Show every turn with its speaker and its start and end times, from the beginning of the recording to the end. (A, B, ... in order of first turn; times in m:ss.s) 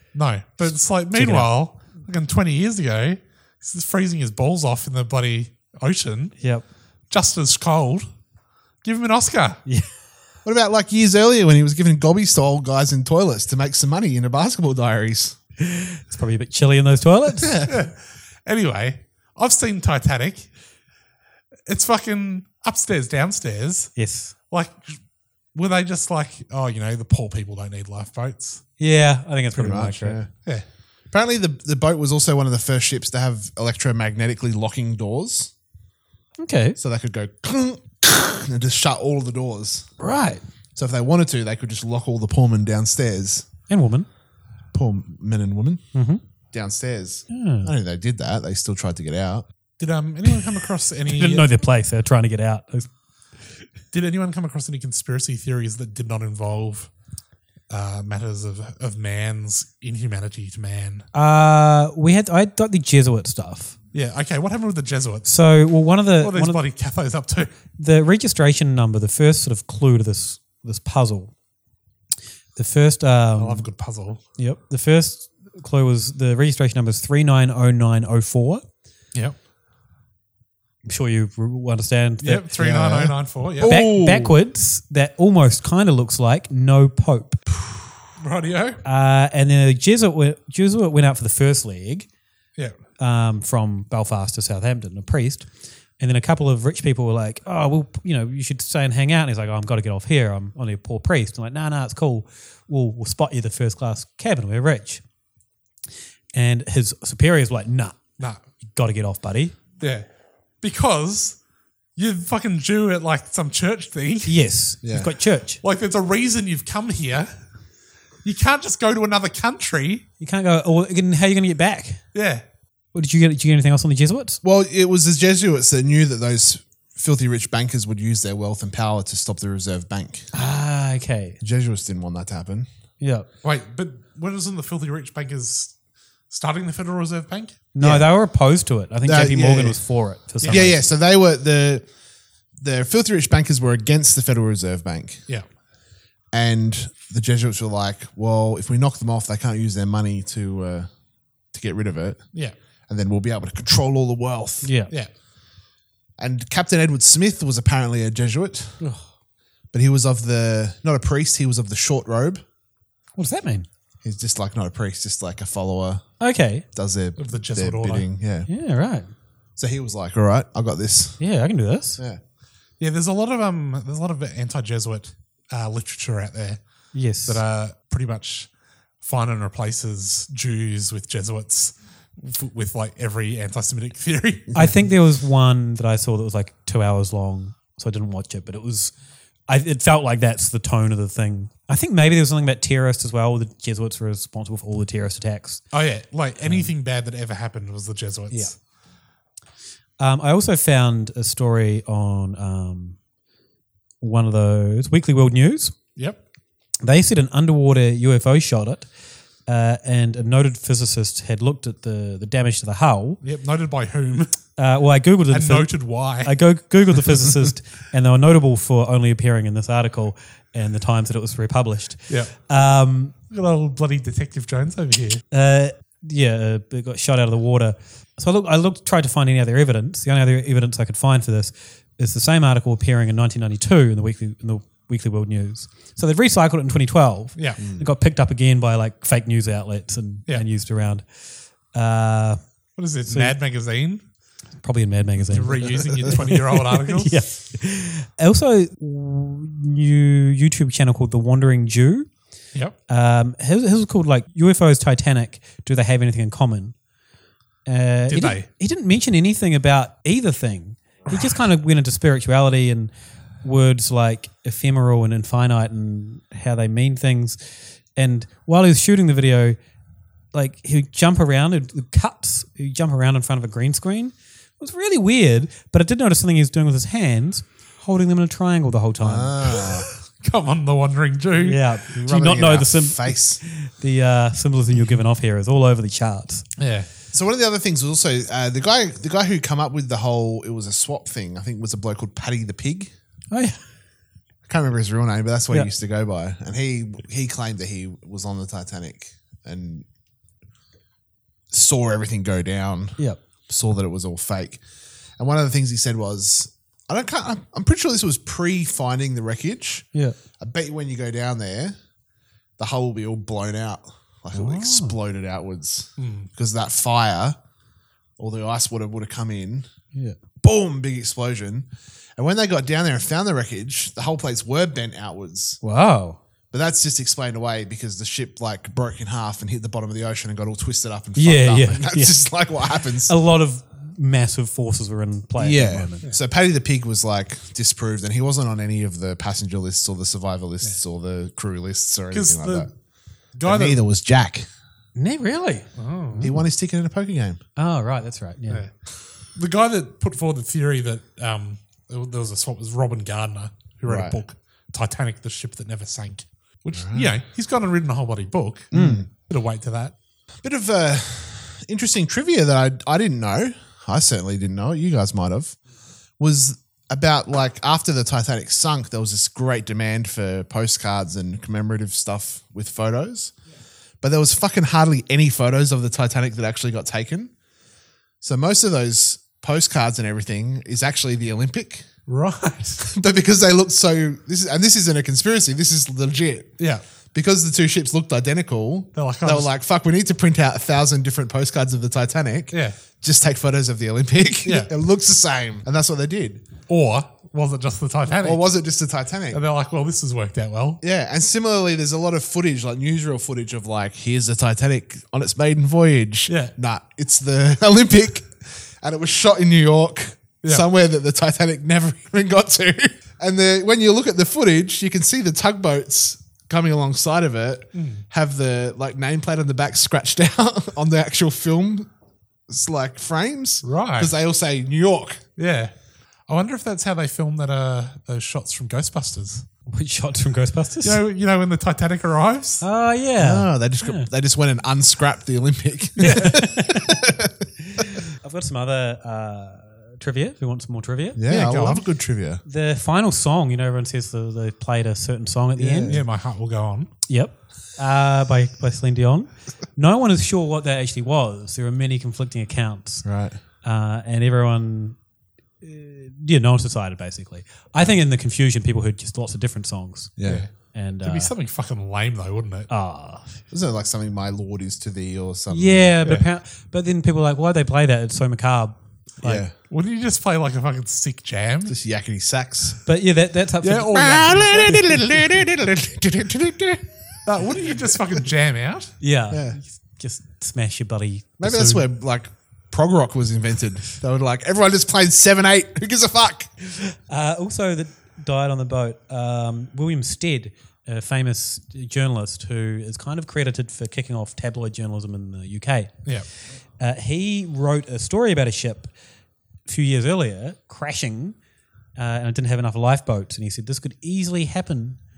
0:00.1-0:06.4 A
0:01.1-0:01.5 B
0:06.4-0:06.6 B
0:07.1-0:08.0 A
0:08.8-0:09.6 A
0:10.4-0:15.4 C
0:15.6-0:17.6 B
0:17.4-0:17.7 C
0:17.6-0:20.5 A
0:21.7-0:24.0 A
0:24.0-0:24.3 B
0:24.5-0:25.0 A
0:25.5-0:28.6 A
0:28.8-0:30.2 B
0:29.5-0:30.3 C
0:31.1-0:35.5 C
0:36.4-0:36.8 B
0:36.8-0:39.9 C
0:40.0-0:40.4 B
0:40.8-0:43.5 C
0:43.7-0:44.1 B
0:44.7-0:45.8 C
0:45.9-0:46.2 B
0:46.5-0:49.5 C
0:47.3-0:47.7 B
0:49.8-0:51.5 A
0:51.1-0:52.9 B
0:53.9-0:56.9 A
0:57.7-1:01.1 A
1:01.1-1:03.8 B
1:03.9-1:05.3 A
1:05.2-1:06.6 B
1:06.2-1:07.5 A
1:07.8-1:11.3 B
1:12.6-1:13.7 B
1:13.4-1:14.2 A
1:14.4-1:18.6 B
1:20.9-1:22.8 B
1:22.2-1:23.8 A
1:22.6-1:24.4 C
1:23.6-1:27.4 B
1:28.2-1:28.8 A
1:28.8-1:32.1 B
1:33.0-1:35.5 B
1:36.0-1:45.0 B
1:46.3-1:48.0 B
1:48.7-1:49.6 B
1:49.8-1:50.0 A
1:50.6-1:51.4 A
1:52.0-1:54.4 A
1:54.3-1:55.6 B
1:54.8-1:55.1 C
1:55.6-1:57.3 A
1:58.2-2:00.0 A
2:00.2-2:02.0 B
2:02.1-2:02.4 A
2:02.9-2:04.4 B
2:04.4-2:10.3 C
2:10.3-2:11.4 B
2:11.4-2:12.7 C
2:13.0-2:13.3 B
2:13.4-2:15.7 A
2:16.3-2:17.6 A
2:17.7-2:20.8 B
2:17.8-2:18.1 C
2:19.0-2:19.8 C
2:20.4-2:20.7 A
2:20.5-2:21.9 C
2:22.6-2:25.2 C
2:26.3-2:30.9 C
2:31.5-2:32.3 C
2:32.9-2:34.7 C
2:34.6-2:34.9 B
2:36.2-2:38.8 C
2:39.7-2:42.4 C
2:43.2-2:43.7 B
2:44.0-2:46.1 C
2:46.2-2:46.6 B
2:46.8-2:48.5 C
2:47.2-2:48.1 A
2:48.5-2:49.1 B
2:49.6-2:51.2 C
2:51.2-2:52.0 B
2:52.8-2:56.6 A
2:56.9-2:57.4 B
2:57.2-2:58.5 A
2:59.0-3:04.5 A
3:04.5-3:08.9 B
3:09.5-3:15.6 B
3:15.7-3:18.6 A
3:20.0-3:23.0 B
3:24.0-3:25.8 B
3:26.8-3:28.9 B
3:29.5-3:33.2 B
3:33.2-3:34.4 A
3:34.6-3:43.1 B
3:35.3-3:36.3 A
3:43.3-3:45.2 A
3:45.3-4:01.0 B
3:57.6-3:57.9 C
4:01.7-4:02.4 B
4:02.8-4:04.0 A
4:03.1-4:03.4 B
4:04.6-4:12.1 B
4:05.3-4:07.2 A
4:12.9-4:16.7 B
4:17.7-4:22.9 B
4:18.1-4:18.5 A
4:23.4-4:29.6 B
4:30.3-4:39.4 B
4:39.0-4:39.9 C
4:39.6-4:41.6 A
4:41.4-4:46.5 B
4:42.0-4:43.4 C
4:46.6-4:46.9 A
4:47.1-4:52.9 C
4:53.3-4:53.6 B
4:54.5-4:59.9 C
5:01.5-5:04.6 C
5:05.2-5:09.9 C
5:10.4-5:11.8 C
5:12.6-5:17.4 C
5:14.3-5:15.0 B
5:16.0-5:16.3 A
5:18.2-5:19.7 C
5:20.4-5:25.6 C
5:25.6-5:26.2 B
5:26.5-5:33.1 C
5:31.2-5:32.2 B
5:33.0-5:36.0 B
5:35.4-5:42.7 C
5:42.1-5:42.7 A
5:43.4-5:43.8 A
5:43.4-5:44.5 C
5:45.0-5:46.4 B
5:45.8-5:46.3 A
5:46.2-5:47.4 C
5:47.6-5:48.6 B
5:49.4-5:59.9 A
5:53.8-5:54.2 C
5:56.8-5:57.1 C
5:58.7-5:59.1 C
5:58.7-5:59.0 B
6:00.4-6:05.6 C
6:06.2-6:13.3 C
6:14.0-6:17.3 C
6:18.2-6:21.9 C
6:22.1-6:22.8 A
6:22.8-6:26.5 C
6:27.1-6:36.4 C
6:29.0-6:29.5 A
6:34.4-6:34.7 A
6:36.7-6:38.4 A
6:38.2-6:39.4 C
6:39.3-6:40.8 A
6:40.8-7:01.9 C
6:46.3-6:46.5 A
6:57.7-6:58.0 A
7:02.5-7:05.2 C
7:03.6-7:04.1 A
7:05.4-7:05.7 A
7:06.3-7:09.4 A
7:09.7-7:11.0 B
7:10.8-7:12.6 A
7:12.6-7:14.1 B
7:13.2-7:17.3 C
7:16.0-7:16.9 B
7:17.8-7:21.2 B
7:21.2-7:22.4 C
7:21.3-7:21.8 A
7:22.5-7:26.0 B
7:25.6-7:26.0 C
7:25.9-7:26.9 A
7:27.1-7:33.0 B
7:33.0-7:33.4 C
7:33.6-7:35.0 B
7:35.6-7:40.1 B
7:40.2-7:40.4 C
7:40.2-7:42.7 A
7:40.7-7:41.3 B
7:42.7-7:43.4 B
7:43.5-7:46.0 C
7:45.5-7:49.4 B
7:49.2-7:49.5 C
7:49.7-7:51.8 A
7:51.7-7:52.8 C
7:52.9-7:54.2 B
7:53.6-7:55.2 A
7:53.9-7:56.8 C
7:57.3-7:58.9 A
7:59.0-8:01.8 B
7:59.3-7:59.6 C
8:01.4-8:06.5 C
8:07.1-8:16.1 B
8:16.8-8:18.9 B
8:19.7-8:21.4 B
8:22.0-8:25.0 B